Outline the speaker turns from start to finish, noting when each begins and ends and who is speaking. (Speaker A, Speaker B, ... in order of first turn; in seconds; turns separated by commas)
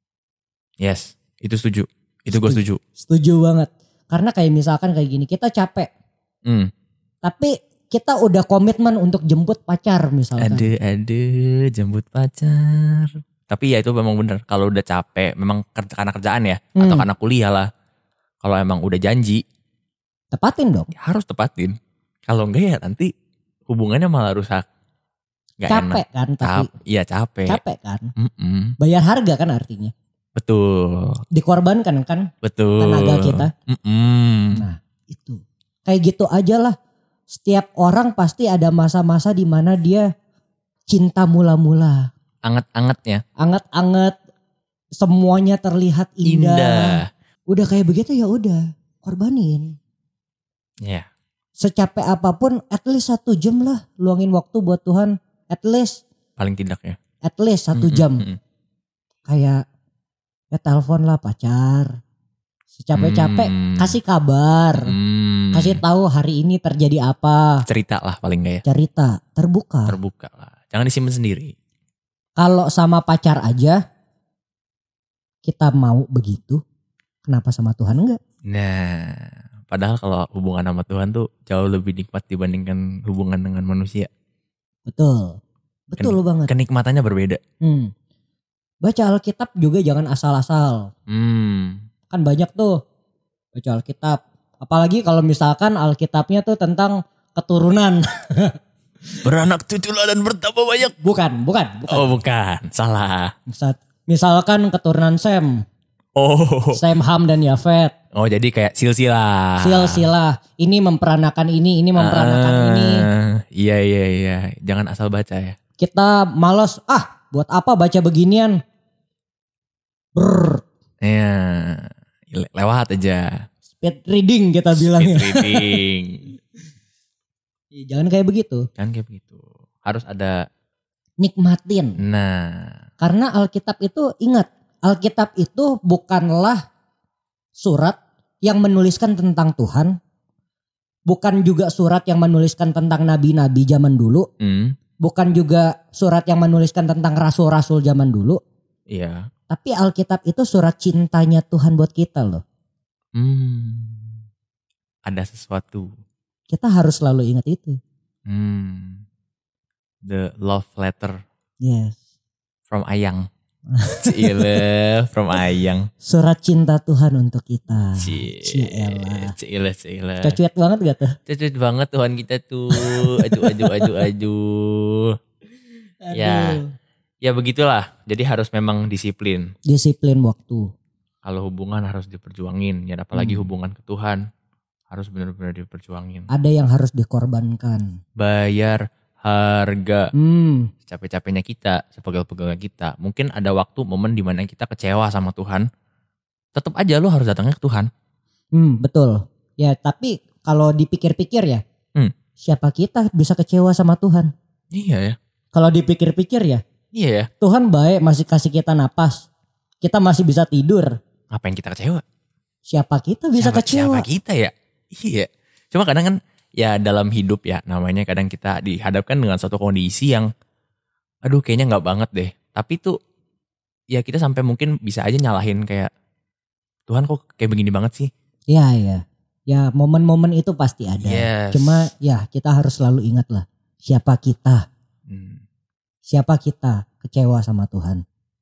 Speaker A: 0.8-2.8, Speaker B: 2.3-5.9, Speaker A: 6.5-6.7, Speaker B: 7.2-10.7, Speaker A: 10.4-17.7, Speaker B: 16.8-17.1, Speaker A: 18.4-19.4, Speaker B: 20.3-20.9, Speaker A: 20.9-23.1, Speaker A: 23.7-24.6, Speaker A: 25.6-27.6, Speaker B: 25.7-26.7, Speaker B: 27.5-28.1, Speaker A: 28.2-28.8, Speaker B: 28.8-29.9, Speaker A: 30.4-31.2, Speaker B: 31.3-33.5, Speaker A: 32.4-34.6, Speaker B: 34.5-36.8, Speaker B: 37.3-40.1, Speaker B: 40.9-42.1, Speaker A: 42.5-43.2, Speaker B: 43.4-44.1, Speaker B: 45.0-47.0, Speaker A: 46.3-47.1, Speaker B: 47.5-49.8, Speaker B: 51.6-56.0, Speaker A: 56.4-57.0, Speaker B: 57.2-58.2, Speaker A: 57.8-58.4, Speaker B: 59.3-59.6, Speaker B: 60.5-62.0, Speaker B: 62.8-64.9, Speaker A: 63.0-64.0, Speaker A: 64.8-65.8, Speaker B: 65.5-67.7, Speaker A: 67.7-68.6, Speaker B: 68.7-70.0, Speaker A: 69.9-71.5, Speaker B: 72.4-73.8, Speaker B: 75.5-76.6, Speaker B: 77.2-78.2, Speaker A: 78.5-84.1, Speaker B: 84.9-85.4, Speaker B: 85.9-86.5, Speaker A: 86.0-87.4, Speaker B: 87.6-87.9, Speaker B: 88.8-90.9, Speaker A: 91.1-91.8, Speaker B: 92.1-92.8, Speaker B: 93.5-98.6, Speaker A: 99.2-101.0, Speaker B: 101.0-102.2, Speaker A: 101.9-103.3, Speaker B: 103.5-105.6, Speaker A: 106.2-106.8, Speaker B: 106.7-107.9, Speaker A: 108.1-110.1, Speaker B: 109.6-113.1, Speaker A: 112.0-115.6, Speaker B: 115.8-118.6, Speaker B: 120.2-120.6, Speaker A: 121.0-123.4, Speaker B: 123.8-125.8, Speaker A: 124.7-126.2, Speaker B: 127.7-128.7, Speaker A: 128.8-130.4, Speaker B: 131.2-132.0, Speaker A: 132.0-132.8, Speaker B: 133.0-136.6, Speaker B: 137.6-140.0, Speaker B: 141.1-144.3, Speaker A: 144.4-144.8, Speaker B: 145.0-148.4, Speaker A: 148.9-149.3, Speaker B: 149.5-152.4, Speaker A: 153.2-154.2, Speaker A: 155.1-155.9, Speaker B: 156.5-157.8, Speaker A: 158.3-159.0, Speaker A: 160.0-161.2, Speaker B: 161.6-162.0, Speaker A: 162.7-163.3, Speaker B: 163.7-164.6, Speaker A: 163.9-165.9, Speaker B: 166.0-169.3, Speaker A: 167.9-170.4, Speaker B: 170.2-171.2, Speaker A: 171.3-175.2, Speaker B: 172.7-174.1, Speaker B: 176.0-176.7, Speaker A: 176.1-176.6, Speaker A: 177.2-179.5, Speaker B: 179.7-180.7, Speaker A: 181.2-184.2, Speaker B: 183.1-183.5, Speaker A: 184.9-186.3, Speaker B: 186.3-188.0, Speaker A: 188.2-190.1, Speaker B: 190.2-190.7, Speaker A: 190.8-195.7, Speaker A: 196.6-197.9, Speaker B: 198.5-201.6, Speaker B: 202.4-204.3, Speaker A: 204.7-205.2, Speaker B: 205.5-206.6, Speaker A: 206.9-207.3, Speaker B: 207.4-209.3, Speaker B: 209.8-210.9, Speaker A: 211.3-212.0, Speaker B: 212.7-214.1, Speaker A: 213.4-220.3, Speaker A: 221.3-223.0, Speaker A: 223.9-225.9, Speaker A: 226.9-228.1, Speaker B: 228.5-234.7, Speaker A: 231.0-231.9, Speaker A: 235.1-235.4, Speaker B: 236.1-238.0